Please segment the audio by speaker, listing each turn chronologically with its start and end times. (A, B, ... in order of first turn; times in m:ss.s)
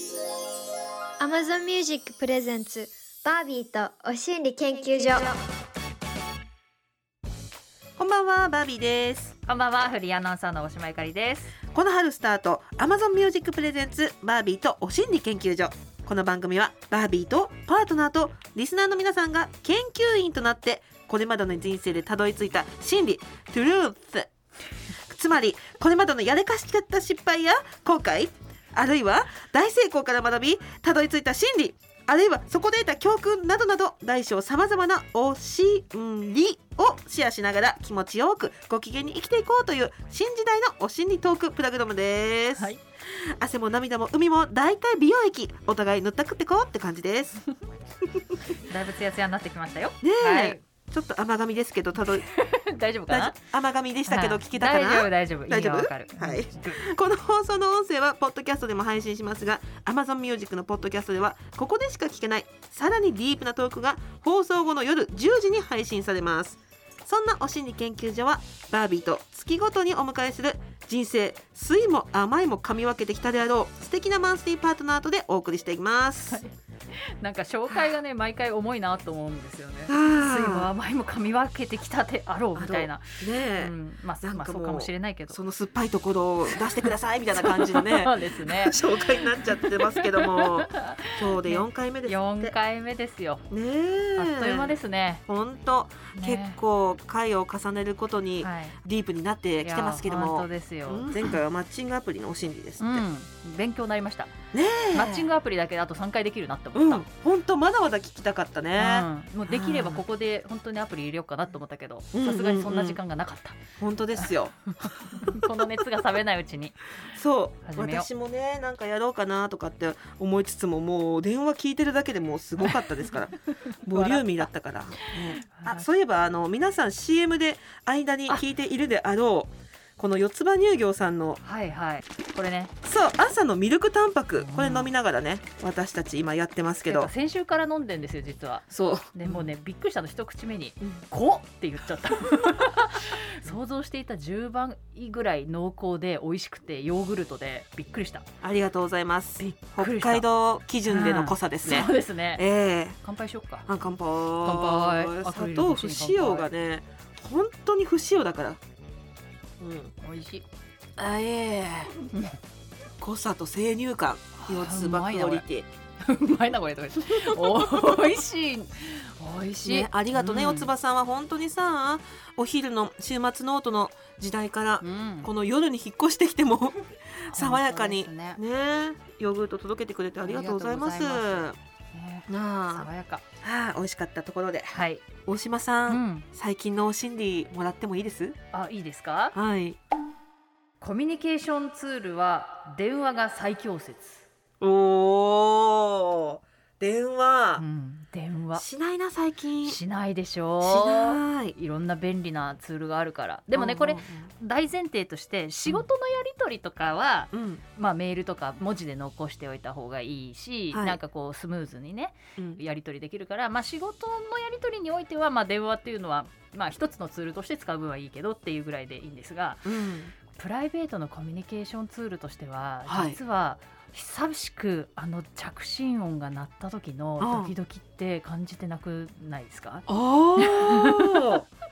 0:01.2-0:05.4 A
0:08.0-0:09.4 B
0:09.5-0:11.6 C
0:11.7-0:24.3 B
0:25.0-0:47.4 B
0:42.5-0:42.8 C
0:48.6-0:50.6 C
0:50.0-0:52.3 B
0:52.2-0:53.4 C
0:53.1-1:16.4 B
0:54.1-0:56.8 C
1:16.3-1:25.4 C
1:19.9-1:20.7 B
1:22.6-1:32.6 B
1:26.5-1:33.5 C
1:33.5-1:43.0 B
1:34.2-1:35.2 C
1:36.1-1:36.6 C
1:38.4-1:38.8 C
1:39.6-1:41.4 C
1:42.8-1:44.3 C
1:44.5-1:45.3 B
1:44.9-1:47.1 C
1:46.8-1:50.0 B
1:48.8-1:53.6 C
1:52.1-1:53.0 B
1:53.8-1:55.5 B
1:54.1-1:56.8 C
1:57.1-2:11.4 B
1:57.6-1:58.1 C
2:03.7-2:05.9 C
2:11.4-2:12.7 C
2:12.8-2:17.1 B
2:14.4-2:14.9 C
2:16.9-2:28.3 C
2:18.7-2:19.5 B
2:28.4-2:33.0 B
2:29.4-2:30.3 C
2:30.9-2:32.4 C
2:33.0-2:33.7 C
2:33.7-2:38.6 B
2:34.4-2:36.5 C
2:39.6-2:39.9 B
2:40.0-2:40.4 C
2:41.0-2:41.9 B
2:42.1-2:42.4 C
2:43.0-2:45.7 B
2:44.4-2:45.5 C
2:46.0-2:50.7 C
2:47.2-2:47.9 B
2:49.6-3:01.6 B
2:54.8-2:55.3 C
2:57.3-2:58.4 C
3:00.2-3:03.2 C
3:02.3-3:02.9 B
3:03.4-3:08.4 B
3:04.7-3:05.0 C
3:05.9-3:06.3 C
3:08.5-3:09.4 C
3:09.3-3:09.8 B
3:10.8-3:14.3 C
3:14.6-3:17.6 B
3:17.6-3:18.6 C
3:18.6-3:19.8 B
3:19.6-3:39.7 C
3:20.6-3:21.6 B
3:23.5-3:24.3 B
3:27.3-3:27.6 B
3:30.7-3:31.0 B
3:39.6-3:40.1 B
3:40.3-3:49.9 C
3:42.9-3:43.2 B
3:47.2-3:47.5 B
3:49.9-3:51.4 B
3:50.4-3:51.4 C